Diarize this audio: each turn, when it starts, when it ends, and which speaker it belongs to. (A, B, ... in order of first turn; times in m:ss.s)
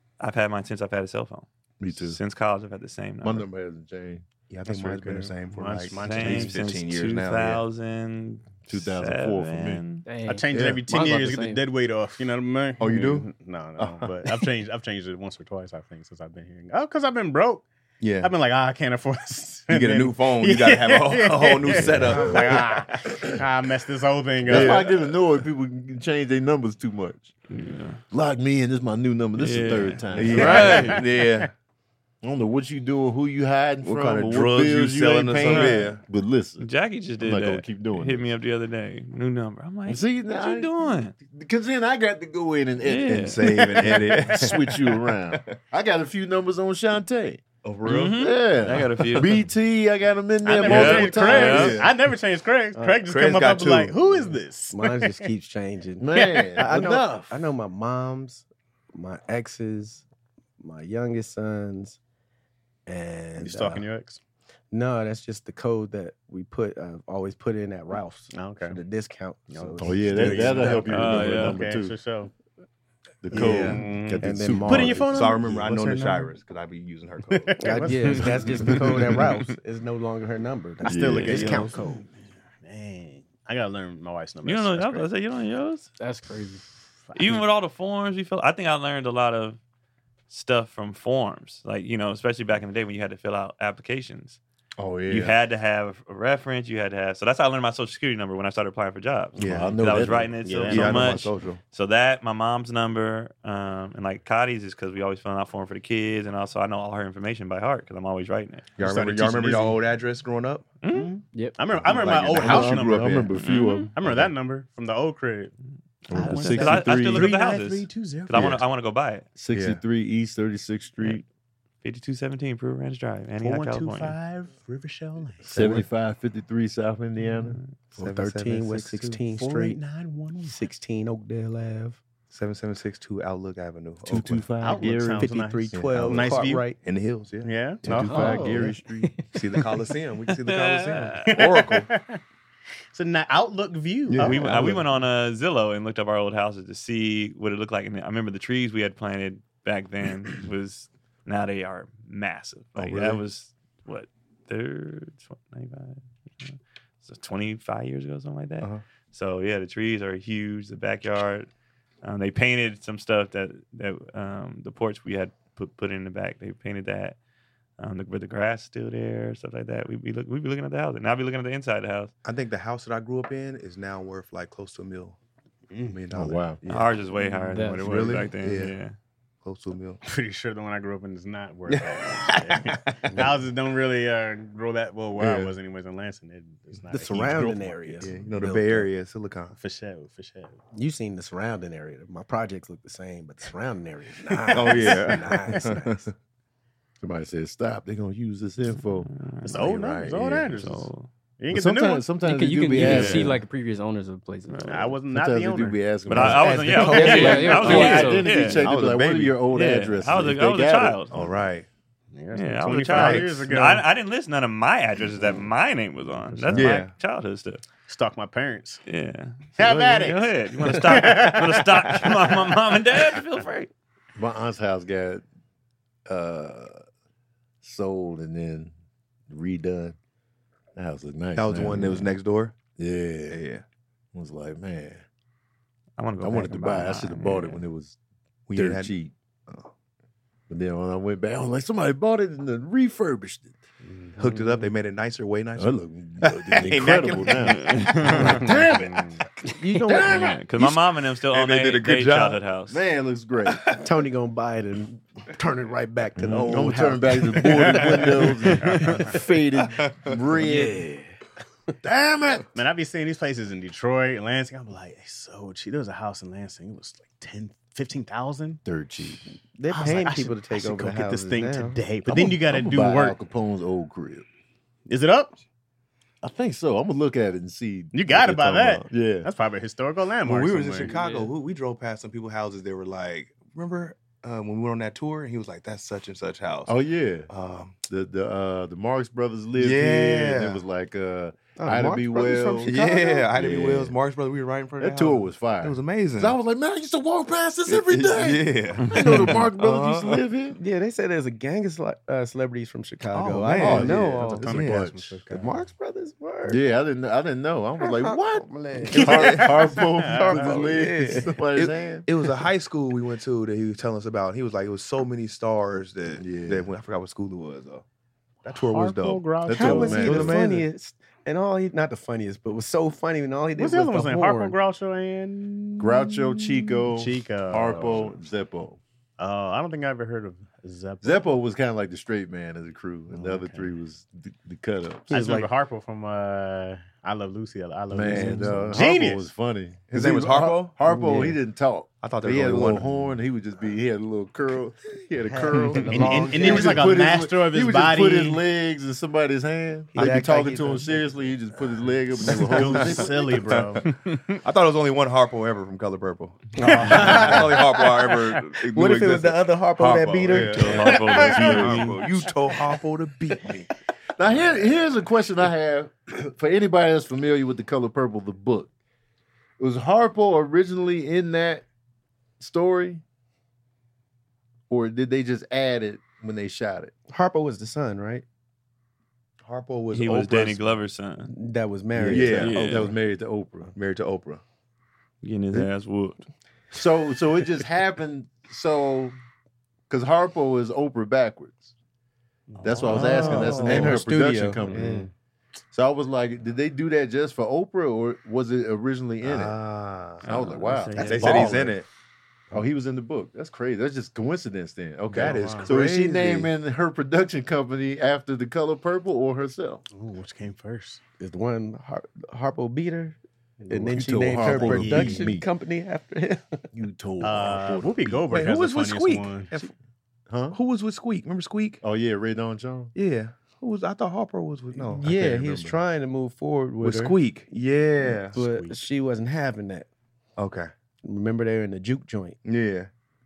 0:00.2-0:03.5 A
0:01.8-0:02.2 B
0:03.2-0:04.2 B
0:04.5-0:07.6 C
0:04.6-0:06.7 D
0:05.9-0:10.1 A
0:08.7-0:09.8 B
0:10.1-0:11.6 E
0:10.2-0:17.6 D
0:10.5-0:11.4 C
0:12.8-0:14.4 C
0:18.0-0:18.3 C
0:18.2-0:25.2 D
0:19.7-0:22.8 C
0:21.8-0:22.2 B
0:24.5-0:27.3 B
0:24.5-0:24.8 C
0:27.5-0:28.0 A
0:28.1-0:30.9 B
0:29.4-0:31.0 A
0:30.1-0:31.5 C
0:30.3-0:31.1 D
0:32.2-0:36.7 B
0:33.8-0:36.0 C
0:35.4-0:35.9 A
0:36.6-0:41.2 A
0:37.2-0:38.3 B
0:39.9-0:47.4 B
0:42.8-0:43.7 A
0:43.1-0:45.6 C
0:47.6-0:48.2 C
0:47.8-0:49.4 A
0:48.1-0:51.9 B
0:50.4-0:55.3 D
0:50.6-0:51.9 A
0:51.5-0:51.9 C
0:52.8-0:54.0 C
0:54.7-1:00.0 F
0:56.0-0:57.4 B
0:56.2-0:56.7 D
1:00.6-1:02.0 F
1:02.9-1:03.9 F
1:03.4-1:04.2 D
1:04.7-1:11.1 F
1:08.3-1:08.8 D
1:09.5-1:12.3 D
1:09.8-1:12.0 B
1:10.9-1:11.6 A
1:13.2-1:15.6 B
1:13.3-1:13.8 C
1:13.3-1:15.7 D
1:13.3-1:16.3 F
1:15.1-1:18.7 C
1:17.3-1:18.9 D
1:17.6-1:22.0 F
1:18.7-1:19.1 B
1:20.9-1:21.5 B
1:20.9-1:25.1 D
1:21.1-1:21.6 A
1:24.4-1:25.9 A
1:26.0-1:26.6 E
1:27.1-1:27.4 D
1:27.2-1:29.6 A
1:30.3-1:34.4 A
1:34.8-1:35.4 B
1:35.1-1:48.7 A
1:39.4-1:39.8 C
1:39.4-1:40.4 B
1:40.4-1:41.2 D
1:40.7-1:41.6 C
1:48.8-1:50.7 C
1:48.8-1:49.8 D
1:50.8-1:51.1 A
1:50.9-1:53.3 D
1:51.8-1:53.3 C
1:52.3-1:54.3 B
1:53.3-1:53.9 A
1:53.9-1:55.5 D
1:56.1-1:57.3 B
1:56.1-1:58.6 D
1:56.1-1:59.3 A
1:58.3-1:58.6 B
1:59.4-2:01.2 B
1:59.5-1:59.8 C
2:01.8-2:04.2 A
2:03.4-2:05.8 D
2:05.5-2:07.6 B
2:05.5-2:05.8 C
2:07.5-2:07.7 A
2:07.9-2:09.2 C
2:08.0-2:09.8 F
2:09.3-2:10.7 D
2:10.4-2:12.0 F
2:12.3-2:14.8 C
2:14.1-2:16.4 B
2:14.6-2:16.7 D
2:15.2-2:16.8 F
2:16.0-2:18.8 C
2:17.4-2:18.6 D
2:17.8-2:19.1 B
2:18.1-2:19.1 E
2:19.3-2:21.9 C
2:20.3-2:21.4 A
2:21.2-2:22.2 D
2:22.9-2:24.8 D
2:24.1-2:25.0 C
2:24.2-2:41.5 A
2:32.8-2:33.2 C
2:42.0-2:47.2 A
2:47.8-2:52.1 A
2:52.2-2:55.2 C
2:55.7-2:56.0 D
2:55.9-2:58.8 C
2:56.1-2:56.6 B
2:56.6-2:59.0 A
2:57.5-2:58.2 E
2:59.4-3:00.0 C
3:00.0-3:08.1 D
3:01.7-3:03.3 C
3:05.2-3:05.5 C
3:06.9-3:08.9 F
3:08.0-3:09.6 C
3:09.6-3:10.6 D
3:10.7-3:16.0 F
3:14.4-3:15.6 D
3:14.5-3:16.1 C
3:17.0-3:20.5 B
3:19.0-3:19.7 A
3:19.4-3:22.1 D
3:20.4-3:21.1 A
3:21.5-3:23.4 B
3:22.2-3:25.0 E
3:22.8-3:23.3 A
3:24.5-3:24.8 A
3:24.7-3:25.9 D
3:25.1-3:31.0 B
3:26.1-3:28.7 A
3:26.1-3:29.4 C
3:26.7-3:28.5 E
3:26.8-3:27.3 D
3:29.5-3:31.3 A
3:31.1-3:31.7 C
3:32.1-3:33.9 D
3:32.3-3:37.6 A
3:32.9-3:33.4 C
3:36.3-3:36.7 D
3:36.5-3:36.9 C
3:37.9-3:38.8 D
3:38.9-3:43.7 A
3:39.6-3:42.4 D
3:44.2-3:45.2 B
3:46.1-3:46.8 B
3:47.6-3:48.7 B
3:49.3-3:50.0 B
3:50.8-3:52.1 B
3:51.4-3:52.5 C
3:52.8-3:53.4 B
3:53.3-3:53.6 C
3:54.1-3:55.0 B
3:56.0-3:57.6 A
3:56.2-3:58.0 B
3:58.5-3:58.9 C
3:58.6-3:59.1 B
4:00.5-4:03.6 B
4:03.8-4:04.7 D
4:04.2-4:08.5 C
4:05.6-4:09.2 B
4:07.4-4:08.5 A
4:08.1-4:09.3 D
4:09.5-4:10.4 F
4:09.8-4:10.4 B
4:10.1-4:12.8 A
4:10.6-4:12.4 C
4:12.7-4:13.7 B
4:13.5-4:13.8 C
4:13.8-4:18.3 F
4:16.2-4:20.9 B
4:17.5-4:19.2 D
4:19.8-4:20.2 C
4:20.4-4:21.1 F
4:21.8-4:22.5 B
4:22.6-4:28.6 D
4:28.7-4:29.3 B
4:29.6-4:31.8 F
4:29.7-4:33.2 D
4:32.1-4:34.3 B
4:34.9-4:35.4 D
4:36.2-4:39.3 B
4:37.9-4:41.0 D
4:40.2-4:46.8 C
4:40.8-4:41.3 E
4:46.7-4:47.3 B
4:47.3-4:47.8 C
4:47.9-4:54.0 B
4:49.6-4:50.6 C
4:51.6-4:53.4 F
4:52.6-4:56.4 C
4:54.8-5:00.6 B
4:57.7-5:00.2 C
4:58.8-4:59.4 A
5:00.5-5:04.5 F
5:03.1-5:05.0 C
5:03.6-5:05.2 B
5:03.7-5:05.5 D
5:05.3-5:06.6 F
5:06.5-5:12.1 B
5:07.8-5:11.4 F
5:08.9-5:09.5 C
5:08.9-5:10.6 D
5:11.2-5:17.8 C
5:16.2-5:16.7 B
5:18.4-5:20.4 D
5:18.5-5:20.6 C
5:19.4-5:20.4 B
5:19.5-5:24.6 F
5:23.6-5:26.2 D
5:25.8-5:28.8 B
5:26.9-5:28.2 D
5:29.2-5:31.3 D
5:31.0-5:35.2 B
5:33.1-5:33.7 D
5:35.1-5:39.3 D
5:37.9-5:53.6 B
5:38.1-5:38.8 C
5:39.9-5:40.8 C
5:40.9-5:41.4 F
5:42.0-5:43.1 C
5:45.2-5:47.0 F
5:45.8-5:48.4 D
5:49.9-5:51.1 F
5:50.0-5:50.3 C
5:52.2-5:53.9 D
5:52.3-6:03.7 C
5:52.3-5:52.8 F
5:56.6-5:58.0 F
5:56.6-5:58.2 D
5:58.6-6:01.6 F
6:00.4-6:02.1 A
6:00.7-6:01.8 D
6:04.2-6:08.7 B
6:09.6-6:11.6 B
6:12.4-6:13.0 B
6:14.7-6:16.9 B
6:17.1-6:18.2 F
6:19.4-6:20.8 C
6:19.9-6:21.3 A
6:21.3-6:22.5 F
6:22.0-6:23.0 C
6:22.0-6:23.7 B
6:22.3-6:22.9 A
6:23.7-6:24.4 C
6:25.2-6:26.2 A
6:26.7-6:29.2 B
6:29.9-6:31.7 B
6:32.5-6:33.4 D
6:32.6-6:35.1 B
6:32.8-6:33.4 A
6:32.9-6:34.0 C
6:33.2-6:35.0 F
6:34.6-6:35.1 D
6:34.7-6:35.0 C
6:35.7-6:39.6 B
6:39.2-6:40.2 C
6:40.2-6:41.3 A
6:40.2-6:41.8 B
6:40.8-6:41.7 D
6:41.0-6:41.9 C
6:42.5-6:49.8 B
6:45.1-6:46.5 C
6:45.2-6:45.6 D
6:49.9-6:51.0 D
6:51.2-6:53.2 F
6:53.6-6:55.3 D
6:53.7-6:56.7 F
6:53.9-6:55.5 B
6:56.7-6:58.5 B
6:57.2-6:59.5 D
6:58.3-6:59.7 C
7:00.3-7:00.6 B
7:00.5-7:01.8 C
7:01.8-7:02.9 B
7:03.0-7:05.8 C
7:04.8-7:07.2 F
7:06.8-7:08.4 C
7:08.3-7:08.8 B
7:08.3-7:09.9 F
7:10.4-7:10.7 C
7:11.0-7:12.4 F
7:12.4-7:12.9 C